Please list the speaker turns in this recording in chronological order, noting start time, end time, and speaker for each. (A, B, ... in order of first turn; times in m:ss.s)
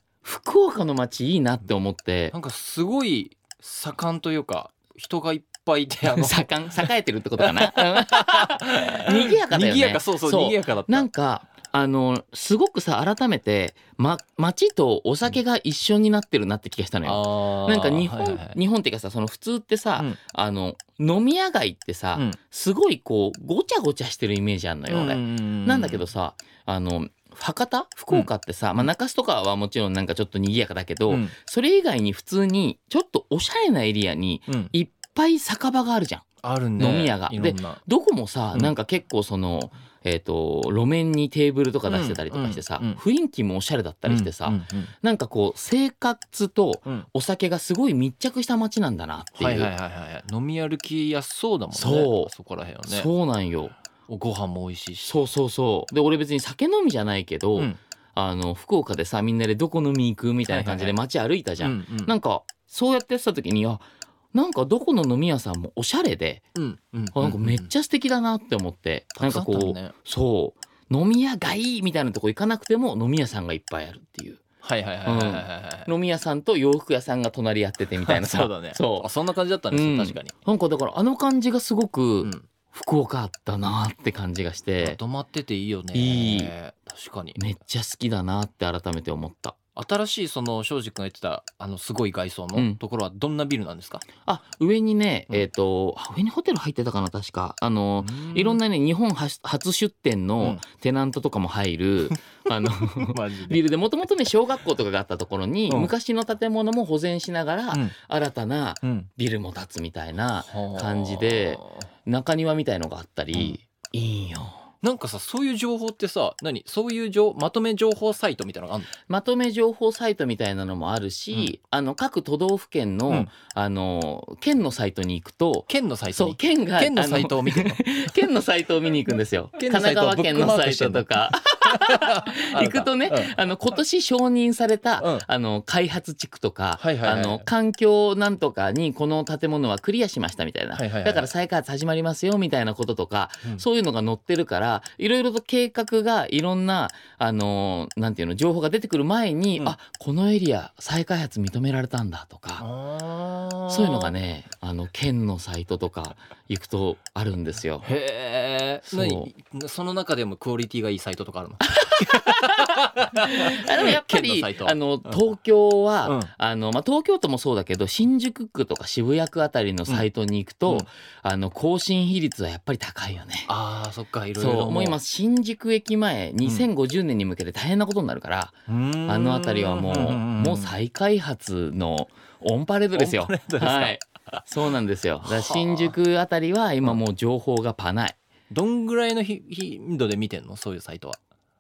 0:00.2-0:02.4 A
0:02.3-0:11.1 B
0:06.1-0:36.3 A
0:17.0-0:18.6 B
0:24.9-0:26.1 B
0:31.1-0:31.4 B
0:34.5-0:34.7 B
0:36.4-0:37.8 B
0:36.8-0:49.7 A
0:41.9-0:43.0 B
0:44.1-0:44.9 B
0:49.4-0:53.1 B
0:51.7-0:52.3 A
0:52.9-0:53.8 A
0:54.1-0:55.2 B
0:55.0-1:06.5 A
1:00.5-1:01.0 B
1:01.6-1:02.1 B
1:06.6-1:07.7 B
1:07.2-1:14.4 A
1:09.2-1:09.9 B
1:14.6-1:15.9 B
1:15.0-1:19.1 A
1:18.0-1:20.3 B
1:19.7-1:25.0 A
1:22.2-1:22.5 B
1:24.8-1:27.4 B
1:25.9-1:26.5 A
1:27.4-1:29.6 A
1:29.8-1:34.1 B
1:32.6-1:32.8 A
1:34.3-1:54.6 A
1:38.0-1:38.6 B
1:42.8-1:43.6 B
1:48.8-1:49.1 B
1:50.4-1:51.9 B
1:54.8-1:58.9 B
1:59.1-2:32.6 A
2:05.7-2:07.8 B
2:09.6-2:13.4 B
2:15.0-2:15.3 B
2:16.8-2:17.5 B
2:20.8-2:21.3 B
2:32.6-2:34.1 B
2:33.7-2:37.9 A
2:37.8-2:44.8 B
2:38.9-2:39.3 A
2:41.7-2:42.7 A
2:43.2-2:53.5 A
2:46.0-2:46.3 B
2:53.5-2:55.0 B
2:54.4-3:08.2 A
2:58.7-3:00.8 B
3:02.9-3:04.4 B
3:05.2-3:06.0 B
3:08.5-3:11.2 B